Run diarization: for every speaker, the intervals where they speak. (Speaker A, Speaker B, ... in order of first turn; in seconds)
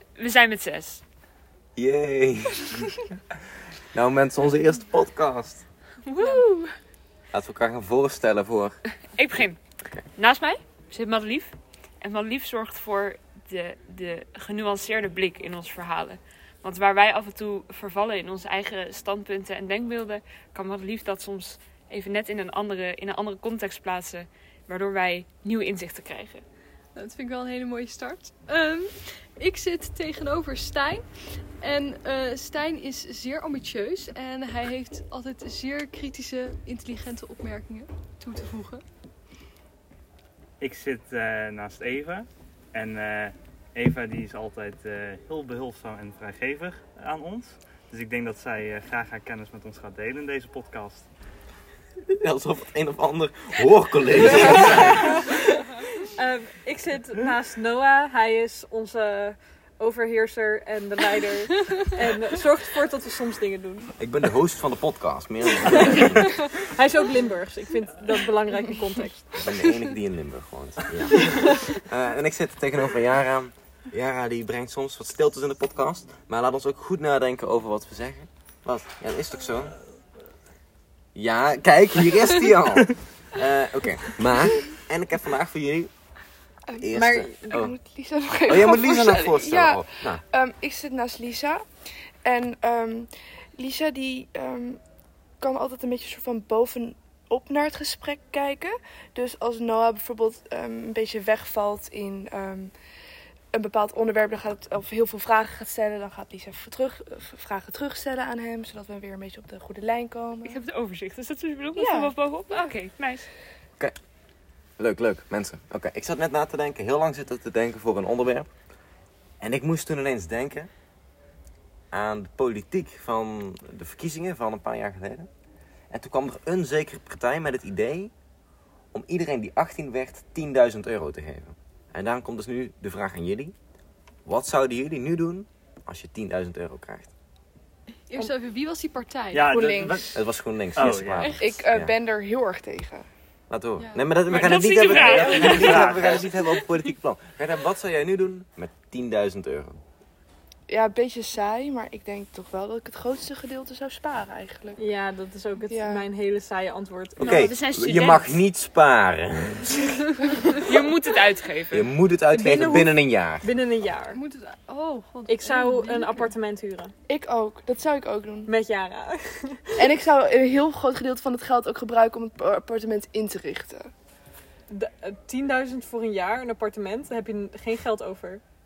Speaker A: 0.2-1.0, 6.1-6.7, 9.2-9.6, 10.2-26.4, 110.5-113.3, 144.3-146.0, 157.2-158.4, 160.5-161.9
Speaker B: 1.8-3.0, 3.9-5.7, 7.3-8.8, 52.1-55.7, 64.0-66.5, 69.4-79.8, 81.2-85.9, 86.8-87.8, 88.5-90.2, 114.8-118.5, 119.4-120.7, 121.9-125.3, 125.9-128.1, 128.9-133.6, 134.2-137.1, 140.1-141.9, 143.5-149.8, 157.2-159.8, 161.7-163.5
Speaker C: 26.9-31.0, 31.6-38.9, 69.5-69.9, 138.1-139.6, 141.2-141.6, 143.8-144.1, 164.0-166.4
Speaker D: 40.6-51.1, 139.3-140.2, 140.7-141.4, 144.3-146.3
Speaker E: 56.4-63.9, 66.7-69.2, 87.0-87.5, 154.8-157.2, 163.4-164.2, 165.3-166.9, 168.7-169.3, 174.7-178.4
Speaker F: 86.7-91.6, 92.2-94.8, 95.4-102.7, 103.5-110.6, 111.8-112.1, 139.5-140.1, 141.4-143.1, 150.7-154.8, 155.7-156.1, 167.1-168.5, 169.8-173.9